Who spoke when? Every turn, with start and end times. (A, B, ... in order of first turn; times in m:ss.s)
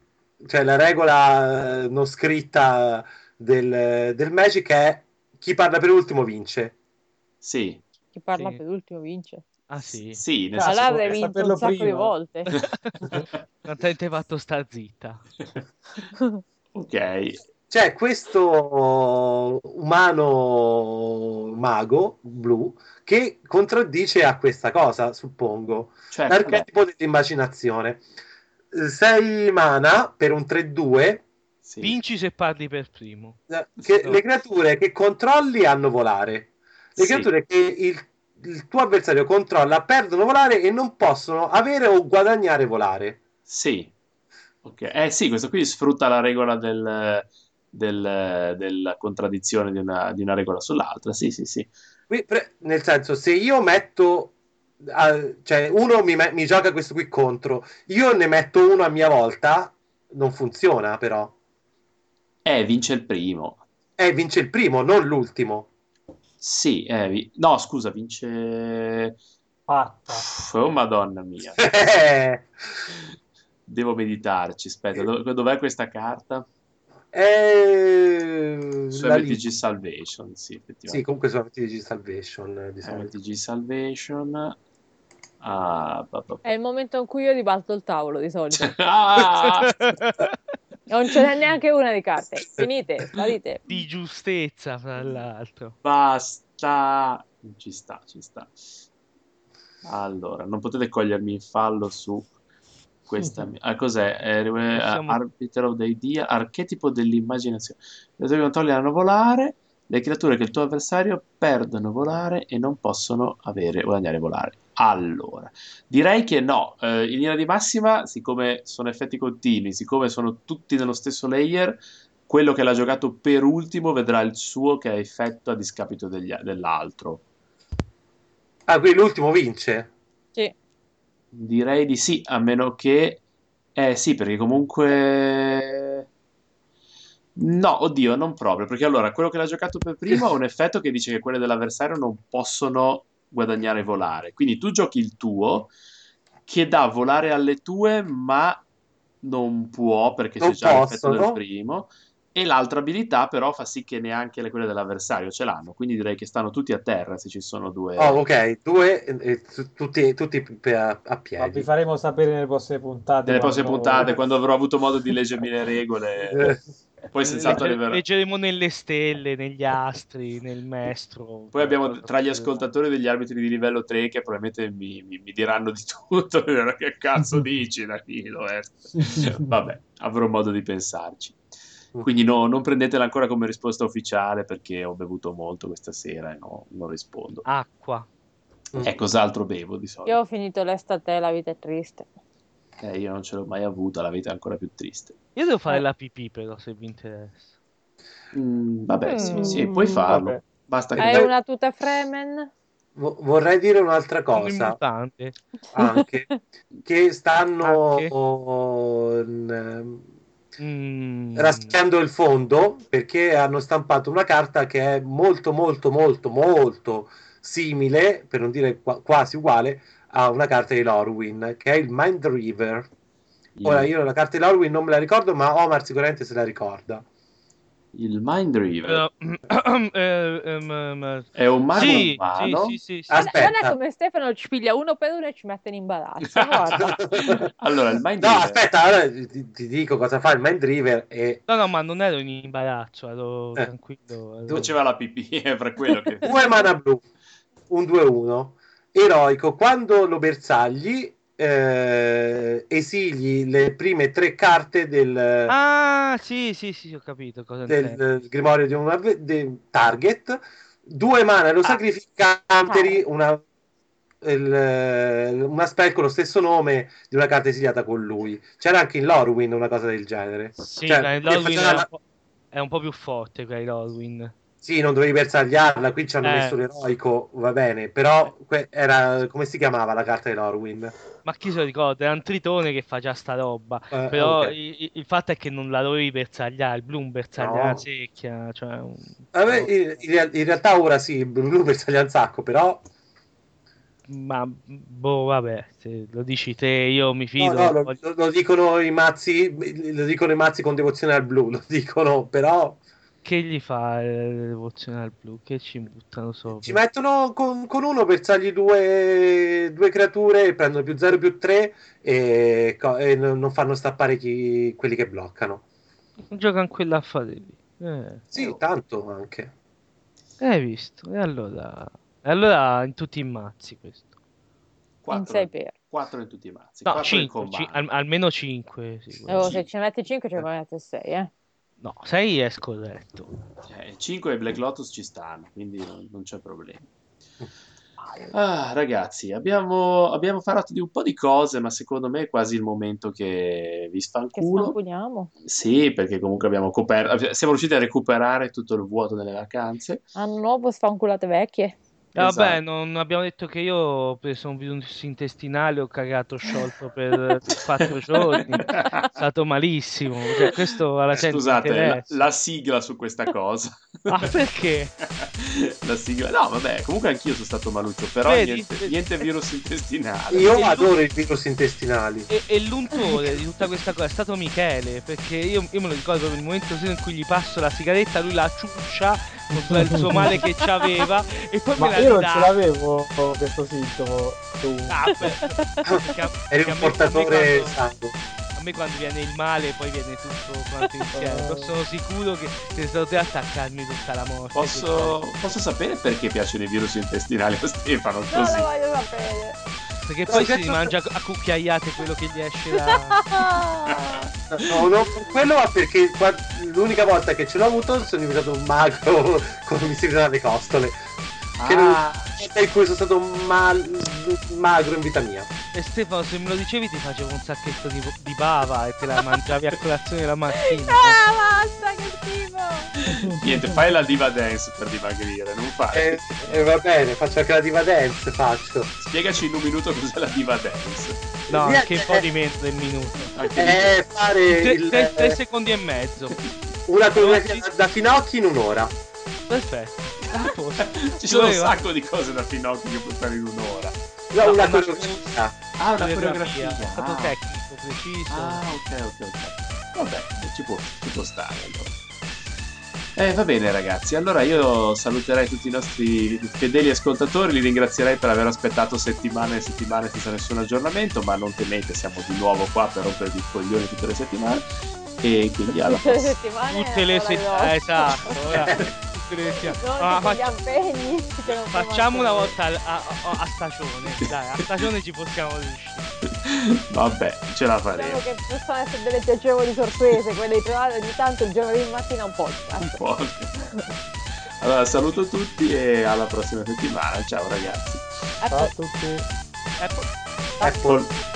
0:00.4-0:06.7 A
0:07.4-0:07.8 B
0:08.1-0:09.5 C
0:09.7-0:10.2 D
0:10.1-0:11.2 B
0:10.5-0:12.2 E
0:10.6-0:12.5 C
0:12.5-0:13.3 B
0:12.8-0:15.3 D
0:16.2-0:16.4 C
0:16.7-0:17.4 B
0:17.7-0:28.0 A
0:26.1-0:26.7 B
0:28.7-0:31.2 A
0:31.6-0:32.0 B
0:31.8-0:33.4 D
0:33.5-0:43.2 A
0:37.0-0:37.3 B
0:43.5-0:43.9 B
0:44.6-0:51.7 B
0:52.1-1:01.3 A
1:02.4-1:03.6 B
1:04.0-1:05.7 A
1:06.4-1:09.2 B
1:09.7-1:10.3 E
1:10.1-1:11.6 B
1:11.6-1:12.5 A
1:13.7-1:16.5 B
1:17.1-1:19.4 A
1:18.9-1:21.0 B
1:20.9-1:23.1 A
1:22.8-1:24.6 B
1:25.4-1:26.4 B
1:26.4-1:28.7 C
1:28.5-1:29.8 B
1:29.4-1:30.4 D
1:30.9-1:33.6 C
1:33.7-1:35.8 D
1:35.8-1:38.6 B
1:39.8-1:42.3 B
1:43.1-2:07.2 B
1:44.7-1:45.2 D
2:08.7-2:09.9 A
2:11.3-2:13.2 B
2:13.8-2:16.0 B
2:17.4-2:25.7 B
2:26.5-2:28.6 B
2:29.2-2:38.2 B
2:30.4-2:31.4 A
2:38.0-2:41.7 A
2:41.4-2:44.2 E
2:43.3-2:46.6 B
2:46.3-2:46.6 A
2:47.1-2:48.0 B
2:47.4-2:52.6 D
2:51.5-3:01.4 B
3:02.0-3:07.5 B
3:07.5-3:08.1 D
3:08.8-3:10.2 B
3:10.1-3:12.1 C
3:12.8-3:15.2 B
3:15.4-3:17.5 D
3:18.3-3:21.3 B
3:19.0-3:19.8 C
3:19.2-3:20.4 E
3:21.0-3:21.3 A
3:21.0-3:22.5 C
3:23.0-3:24.8 A
3:24.3-3:25.4 D
3:25.7-3:26.4 C
3:25.7-3:30.0 A
3:27.6-3:28.1 D
3:30.6-3:31.8 D
3:31.4-3:42.9 A
3:43.6-3:43.9 B
3:43.7-3:47.0 A
3:47.9-3:49.0 B
3:48.9-3:53.4 D
3:51.4-3:52.8 B
3:51.8-3:52.1 A
3:53.1-3:53.8 A
3:53.2-3:56.8 C
3:56.3-3:58.6 B
3:56.8-3:57.5 A
3:58.2-4:01.4 A
4:01.5-4:04.7 D
4:04.5-4:04.7 A
4:04.5-4:06.4 B
4:06.2-4:07.0 A
4:07.7-4:15.5 A
4:15.5-4:18.0 D
4:17.7-4:23.4 A
4:22.7-4:23.0 C
4:24.2-4:31.9 A
4:30.6-4:32.0 D
4:32.5-4:34.3 D
4:34.6-4:41.0 A
4:36.2-4:36.6 D
4:41.2-4:50.0 D
4:43.9-4:44.6 A
4:47.4-4:47.8 A
4:49.3-4:52.8 A
4:54.1-4:58.0 D
4:57.4-5:02.8 A
5:03.2-5:06.8 D
5:06.6-5:15.6 A
5:16.3-5:18.6 D
5:18.3-5:19.5 A
5:20.4-5:24.1 D
5:25.0-5:27.8 B
5:25.1-5:25.7 C
5:26.9-5:29.6 D
5:29.3-5:31.3 C
5:29.4-5:29.6 B
5:31.8-5:33.3 D
5:33.7-5:36.9 B
5:38.1-5:38.3 C
5:38.3-5:44.8 B
5:44.4-5:45.3 C
5:45.4-5:50.0 B
5:50.2-5:51.8 C
5:52.2-6:02.2 D
5:52.2-5:52.6 B
5:58.3-5:59.1 B
6:01.1-6:04.3 B
6:04.1-6:04.9 D
6:05.0-6:10.6 B
6:08.2-6:09.0 D
6:10.3-6:12.3 A
6:10.5-6:10.9 D
6:12.3-6:22.5 D
6:19.5-6:20.4 E
6:20.4-6:20.7 C
6:21.8-6:25.1 E
6:24.9-6:27.8 D
6:25.1-6:26.1 C
6:25.8-6:28.2 A
6:28.6-6:35.6 D
6:31.1-6:31.8 E
6:34.5-6:38.7 B
6:38.3-6:39.6 C
6:40.0-6:43.3 D
6:40.3-6:40.9 A
6:42.7-6:44.3 C
6:43.9-6:44.7 B
6:44.5-6:51.0 A
6:51.6-6:52.3 B
6:51.7-6:55.5 A
6:55.7-7:01.2 D
7:00.6-7:03.0 C
7:03.0-7:06.4 B
7:03.2-7:03.8 E
7:05.9-7:08.9 A
7:09.0-7:11.2 B
7:11.5-7:12.2 A
7:11.5-7:13.3 D
7:13.4-7:14.0 B
7:13.6-7:15.4 A
7:14.5-7:16.4 D
7:16.9-7:19.0 A
7:17.2-7:17.6 D
7:19.5-7:21.8 D
7:20.2-7:24.0 B
7:24.3-7:25.6 A
7:24.4-7:25.3 D
7:25.8-7:27.4 B
7:25.9-7:28.8 D
7:28.3-7:32.0 B
7:33.2-7:44.6 B
7:45.2-7:46.4 B
7:45.8-7:48.7 C
7:46.7-7:50.6 D
7:48.6-7:48.9 B
7:49.5-7:52.6 C
7:51.7-7:56.1 D
7:56.2-7:58.2 B
7:57.9-8:03.0 C
8:02.8-8:03.5 B
8:03.6-8:03.9 C
8:04.6-8:08.1 B
8:08.4-8:08.7 C
8:08.5-8:09.3 E
8:10.6-8:10.9 C
8:10.6-8:11.0 A